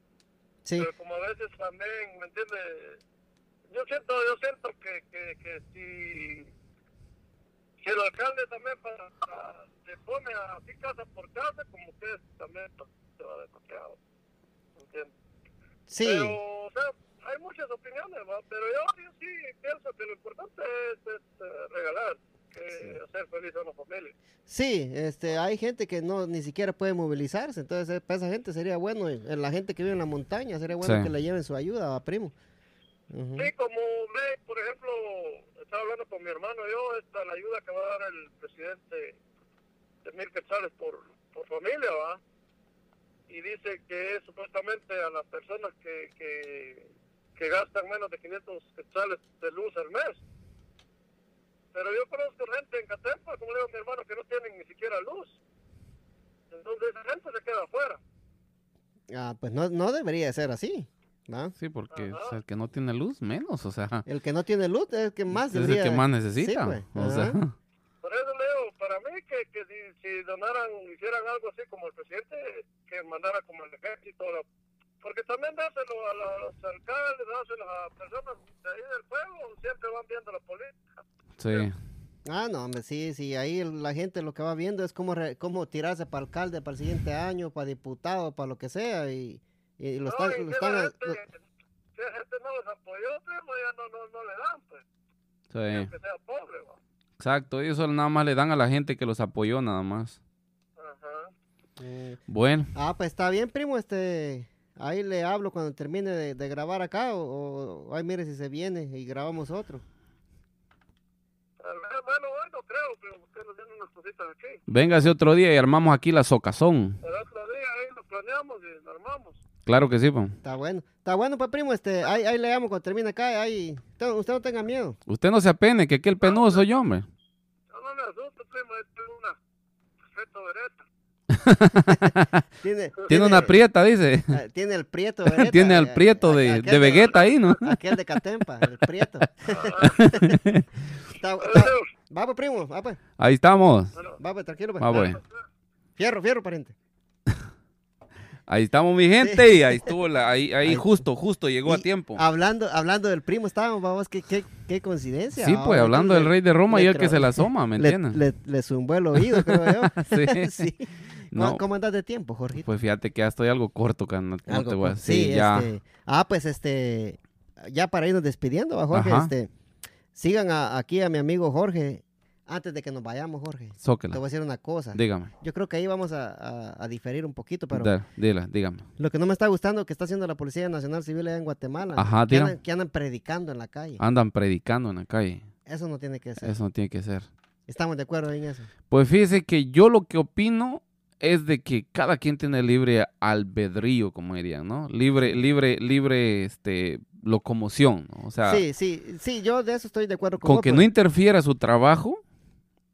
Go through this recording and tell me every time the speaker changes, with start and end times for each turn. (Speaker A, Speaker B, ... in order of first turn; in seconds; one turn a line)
Speaker A: 0.8-3.0
Speaker A: 3.7-6.5
Speaker A: 7.8-14.0
Speaker A: 14.8-15.1
Speaker B: 15.9-16.4
Speaker A: 16.0-24.1
Speaker B: 22.7-22.9
Speaker B: 24.5-32.3
Speaker C: 30.8-31.1
Speaker B: 33.1-33.5
Speaker A: 33.4-39.2
Speaker A: 40.0-42.2
Speaker A: 43.3-50.2
Speaker A: 51.7-55.4
Speaker A: 56.5-58.0
Speaker B: 59.1-61.5
Speaker C: 61.6-64.0
Speaker A: 61.9-62.4
Speaker B: 64.0-67.4
Speaker C: 65.3-67.5
Speaker A: 68.0-74.5
Speaker A: 75.0-81.7
Speaker C: 81.4-81.8
Speaker B: 82.2-91.2
Speaker A: 90.0-91.4
Speaker A: 91.9-94.8
Speaker C: 95.5-95.9
Speaker A: 95.7-96.8
Speaker C: 97.2-100.2
Speaker A: 100.8-101.3
Speaker B: 101.8-102.2
Speaker C: 102.3-102.7
Speaker B: 102.7-109.8
Speaker A: 111.6-114.7
Speaker C: 114.7-117.0
Speaker A: 117.0-119.4
Speaker C: 119.7-120.4
Speaker B: 120.4-125.0
Speaker C: 125.1-127.1
Speaker A: 126.2-126.6
Speaker A: 127.7-129.4
Speaker A: 130.1-130.8
Speaker C: 131.3-132.4
Speaker B: 131.9-133.5
Speaker C: 133.1-134.3
Speaker B: 134.3-140.4
Speaker C: 135.2-137.8
Speaker A: 139.5-140.1
Speaker C: 139.8-140.7
Speaker B: 141.1-143.0
Speaker A: 141.4-141.9
Speaker C: 143.2-143.9
Speaker B: 144.2-145.2
Speaker C: 144.8-145.2
Speaker B: 146.0-146.7
Speaker C: 148.5-152.2
Speaker B: 150.6-151.0
Speaker B: 151.7-162.7
Speaker C: 155.3-158.2
Speaker C: 159.1-160.7
Speaker C: 161.3-161.6
Speaker C: 162.6-165.7
Speaker B: 164.5-169.5
Speaker C: 168.9-169.3
Speaker B: 170.1-177.9
Speaker C: 173.8-174.2
Speaker C: 174.9-175.3
Speaker C: 177.7-178.9
Speaker B: 179.0-184.0
Speaker C: 182.0-182.6
Speaker C: 184.0-185.4
Speaker B: 185.7-186.5
Speaker C: 186.4-187.3
Speaker B: 187.7-188.7
Speaker C: 188.9-198.6
Speaker B: 198.4-200.9
Speaker C: 200.4-202.2